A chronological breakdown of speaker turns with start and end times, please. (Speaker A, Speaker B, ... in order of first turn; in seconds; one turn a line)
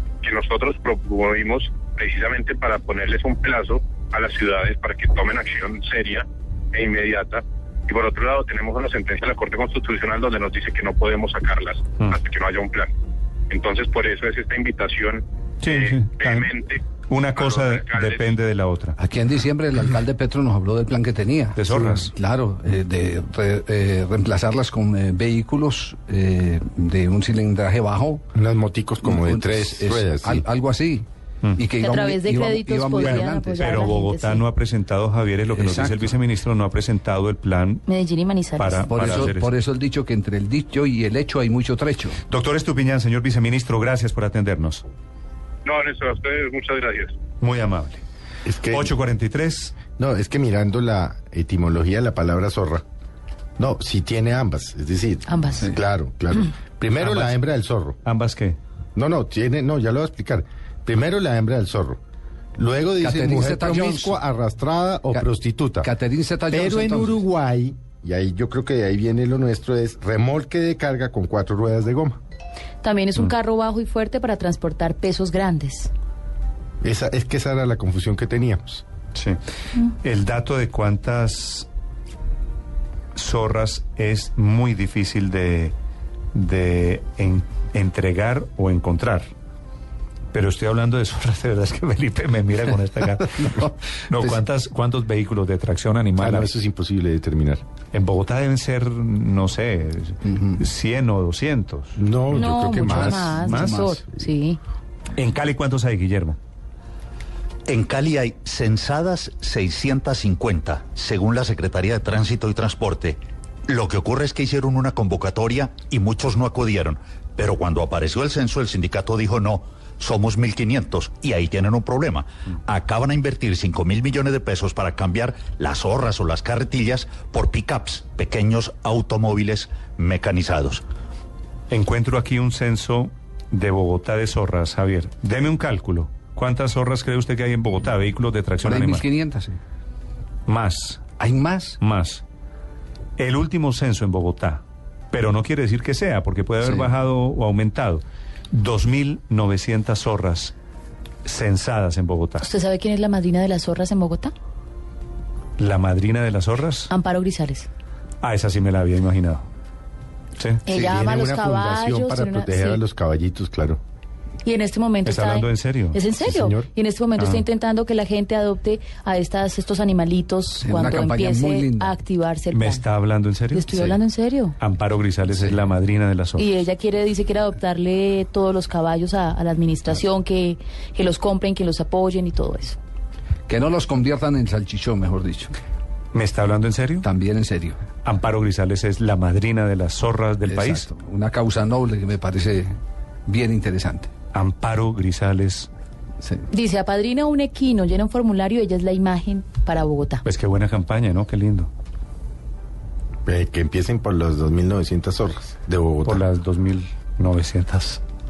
Speaker A: 0.2-12.9
Speaker A: 13.5-18.3
Speaker B: 15.6-19.0
Speaker C: 19.0-28.3
Speaker B: 21.6-22.1
Speaker D: 28.4-30.4
Speaker C: 29.0-33.9
Speaker E: 31.8-34.5
Speaker B: 33.6-37.8
Speaker C: 35.5-36.2
Speaker E: 37.9-39.1
Speaker B: 38.6-39.5
Speaker C: 38.9-42.2
Speaker B: 42.3-44.8
Speaker A: 45.6-47.2
Speaker B: 47.4-48.0
Speaker D: 48.5-48.9
Speaker B: 48.7-49.8
Speaker D: 49.9-52.8
Speaker D: 53.6-58.0
Speaker E: 55.3-55.7
Speaker B: 57.0-57.4
Speaker B: 58.0-58.6
Speaker D: 59.0-62.0
Speaker D: 62.6-65.9
Speaker C: 63.0-64.2
Speaker C: 65.8-67.2
Speaker D: 66.5-72.2
Speaker E: 72.8-75.9
Speaker D: 76.8-78.8
Speaker B: 80.0-81.7
Speaker B: 83.2-85.8
Speaker B: 86.3-89.3
Speaker B: 90.3-96.5
Speaker D: 96.2-97.6
Speaker B: 97.9-102.0
Speaker D: 102.0-103.5
Speaker E: 102.3-104.6
Speaker B: 102.7-103.8
Speaker C: 102.9-104.0
Speaker B: 105.2-106.4
Speaker F: 107.7-130.8
Speaker B: 131.7-139.1
Speaker C: 138.6-139.6
Speaker B: 140.5-141.2
Speaker C: 141.2-141.8
Speaker B: 141.8-142.2
Speaker B: 143.2-150.6
Speaker C: 146.6-146.9
Speaker B: 151.2-152.4
Speaker E: 152.4-154.3
Speaker B: 155.6-156.9
Speaker E: 156.9-157.7
Speaker B: 158.2-159.5
Speaker B: 160.4-160.6
Speaker E: 160.7-162.8
Speaker D: 160.7-163.8
Speaker E: 164.4-172.9
Speaker B: 165.1-166.0
Speaker D: 166.2-166.7
Speaker B: 167.2-167.4
Speaker C: 170.6-172.0
Speaker B: 172.5-173.7
Speaker E: 173.5-174.6
Speaker C: 173.7-174.0
Speaker B: 174.6-176.5
Speaker E: 176.4-182.8
Speaker C: 183.5-185.5
Speaker B: 186.1-187.1
Speaker C: 187.0-187.8
Speaker B: 188.0-190.9
Speaker C: 190.4-192.8
Speaker C: 193.3-194.1
Speaker B: 194.3-195.7
Speaker E: 196.5-200.2
Speaker B: 200.2-201.7
Speaker D: 203.3-206.2
Speaker B: 206.1-208.0